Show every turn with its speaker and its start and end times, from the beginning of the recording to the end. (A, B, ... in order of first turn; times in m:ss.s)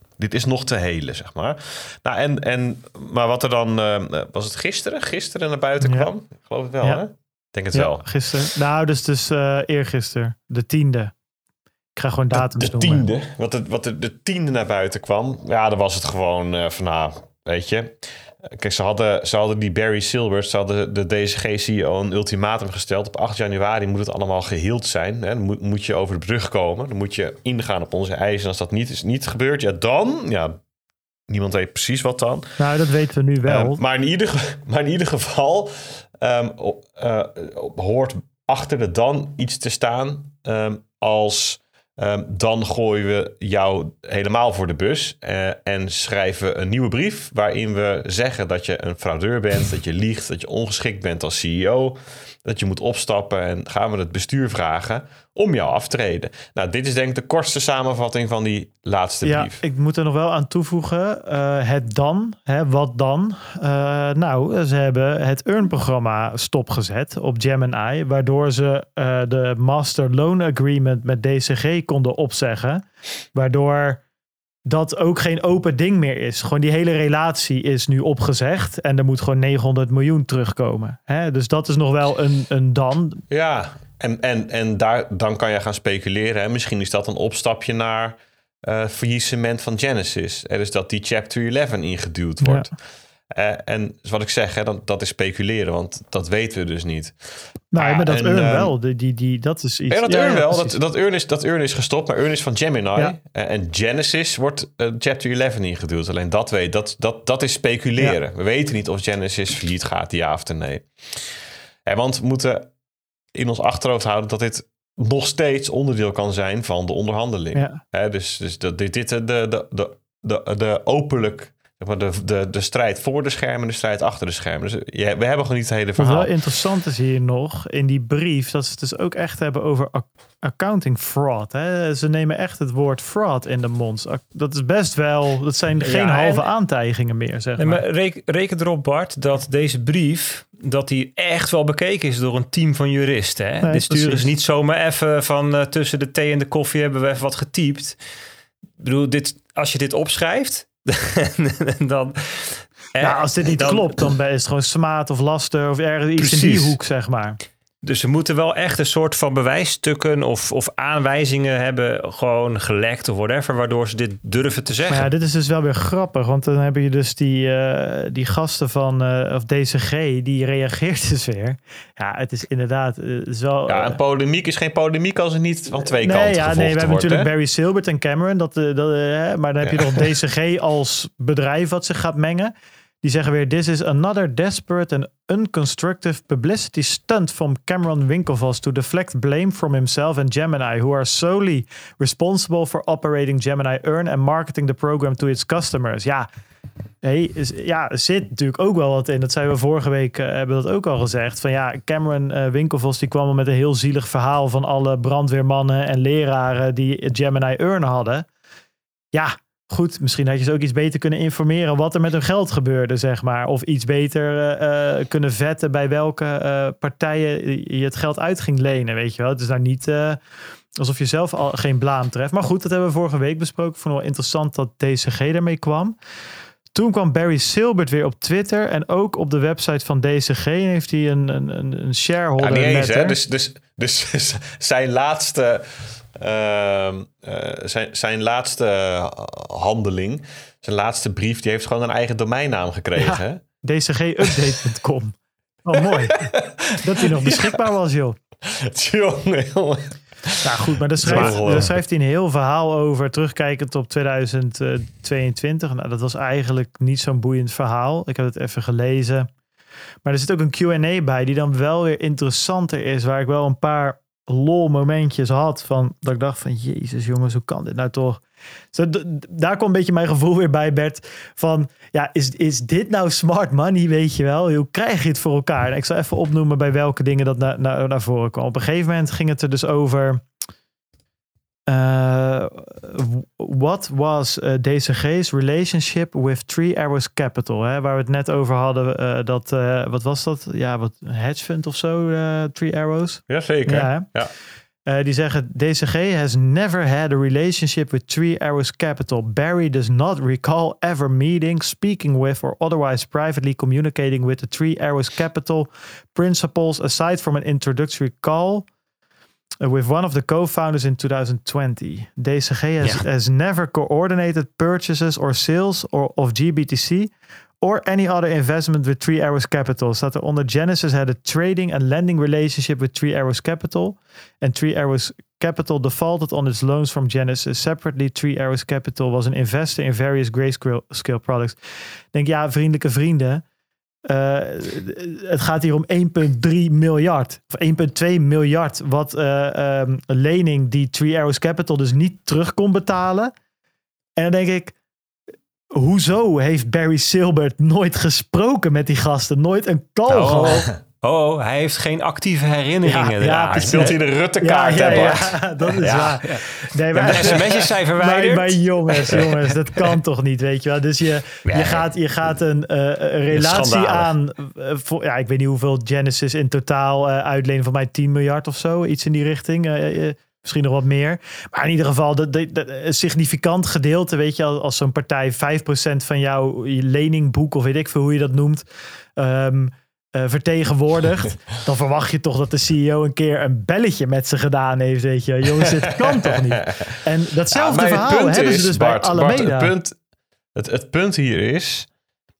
0:00.2-0:08.0 A
0:05.8-0:06.1 B
0:07.7-0:11.1 B
0:11.9-0:13.0 B
0:12.3-0:30.6 A
0:31.3-0:32.6 A
0:32.6-0:33.8 B
0:33.4-0:59.6 A
0:59.2-1:14.0 B
1:14.6-1:23.2 B
1:23.3-1:32.7 A
1:32.4-1:32.7 B
1:33.3-1:37.2 A
1:37.7-1:40.7 B
1:37.8-1:38.7 A
1:39.9-1:51.2 A
1:51.8-1:52.7 A
1:53.3-2:06.3 A
1:57.5-1:57.8 B
2:06.0-2:17.8 B
2:15.8-2:16.4 C
2:17.6-2:28.0 C
2:23.6-2:24.3 B
2:28.8-2:34.1 C
2:33.0-2:37.4 B
2:36.2-2:36.8 C
2:37.8-2:45.1 C
2:44.9-2:54.0 B
2:53.7-2:57.3 A
2:55.9-3:16.3 B
2:59.6-3:00.1 A
3:17.0-3:28.3 B
3:29.1-3:40.2 B
3:40.8-3:46.0 B
3:46.7-3:53.2 B
3:52.4-4:03.4 A
4:03.0-4:06.2 B
4:05.8-4:07.6 A
4:06.8-4:08.2 B
4:08.4-4:11.7 A
4:10.4-4:19.3 B
4:11.1-4:11.4 C
4:20.0-4:28.2 B
4:28.7-4:40.2 B
4:41.7-4:54.1 B
4:53.3-4:54.3 A
4:54.9-5:08.7 B
5:09.6-5:31.6 B
5:32.1-5:33.4 B
5:34.1-5:43.3 B
5:44.2-5:44.8 B
5:45.7-5:50.7 B
5:50.1-5:50.8 A
5:50.1-5:54.0 C
5:52.8-6:18.6 B
5:53.5-5:56.2 A
5:54.8-5:55.1 C
5:55.8-5:56.4 C
5:56.9-5:59.4 C
5:57.3-5:57.6 A
6:01.4-6:01.8 C
6:03.3-6:04.1 C
6:19.2-6:29.7 B
6:26.0-6:26.8 A
6:27.5-6:29.9 A
6:30.5-6:31.9 A